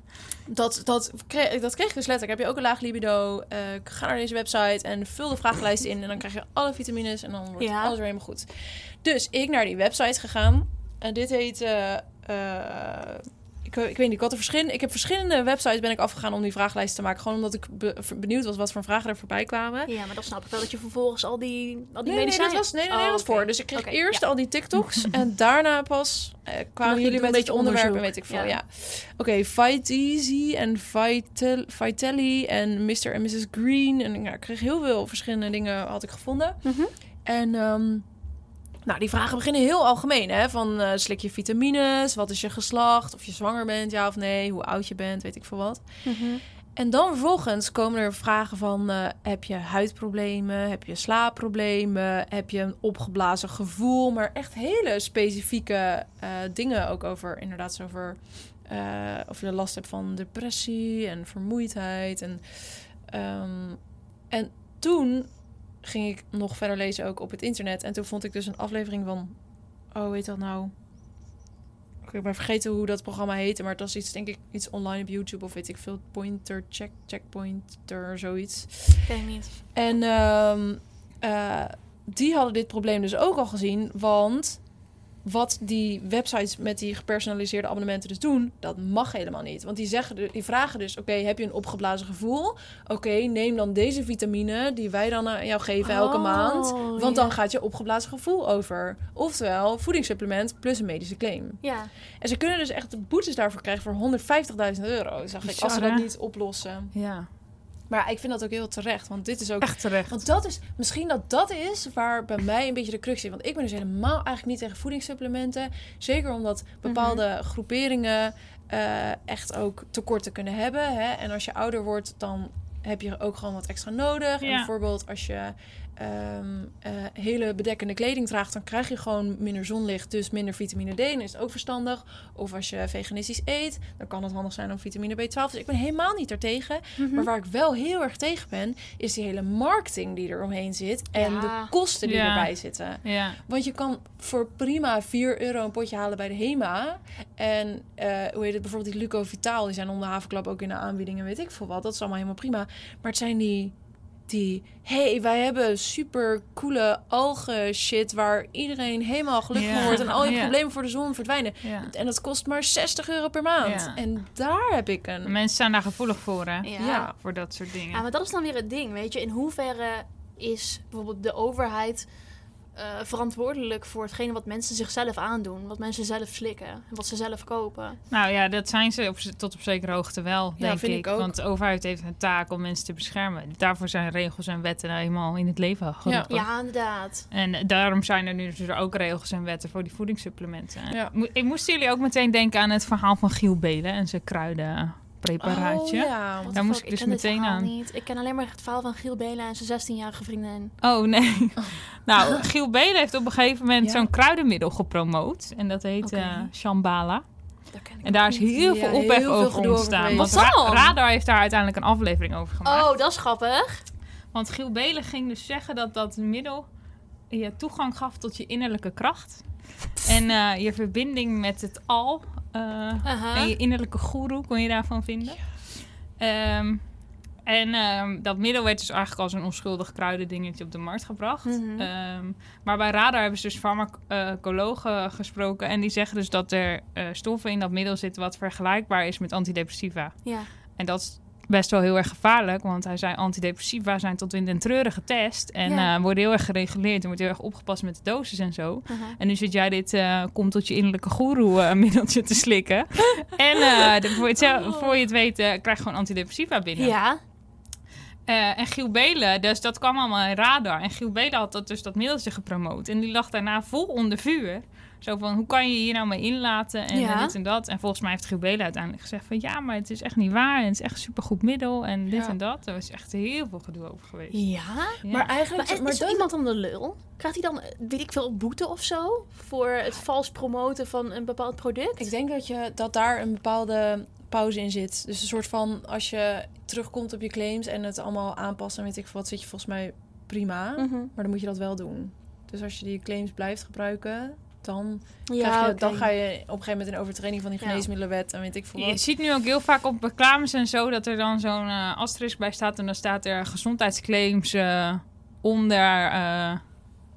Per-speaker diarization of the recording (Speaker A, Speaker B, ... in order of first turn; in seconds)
Speaker A: 0.5-8.5, 9.0-19.9, 22.1-36.6, 37.2-38.1, 38.9-46.0, 46.8-62.4, 63.1-65.3, 65.8-69.4, 69.9-70.7, 72.0-79.1, 79.7-84.6, 85.2-101.6, 102.2-106.9, 107.9-153.8, 154.3-165.3, 166.8-167.2, 180.6-181.3, 186.0-186.3, 195.4-196.6, 203.8-204.1, 206.0-206.5, 208.5-210.5, 272.1-272.4, 275.1-276.3, 282.0-299.0
Speaker B: 7.6-8.0, 19.9-24.3, 26.8-28.6, 36.6-36.9, 46.0-46.4, 79.0-79.6, 95.8-97.4, 101.6-101.9, 116.8-117.2, 137.0-137.3, 141.2-141.7, 159.8-160.2, 166.6-167.1, 167.9-172.1, 172.8-178.0, 186.3-187.3, 196.4-200.7, 207.7-208.5, 210.1-210.9, 212.6-213.8, 223.1-223.5, 231.4-231.9, 245.7-245.9, 248.9-249.2, 254.4-255.0, 256.8-257.2, 266.9-267.4, 274.3-275.0, 275.6-282.1, 290.8-291.1, 295.3-296.1, 297.6-297.9
Speaker C: 105.4-106.1, 106.9-107.3, 109.6-110.1, 124.4-124.7, 142.0-143.4, 159.5-160.6, 161.6-161.9, 163.6-164.0, 165.2-168.0, 178.1-186.6, 187.3-197.7, 200.8-207.2, 208.0-212.9, 214.3-216.7, 217.3-226.9, 227.5-256.9, 258.3-274.4, 275.0-275.3, 298.8-306.7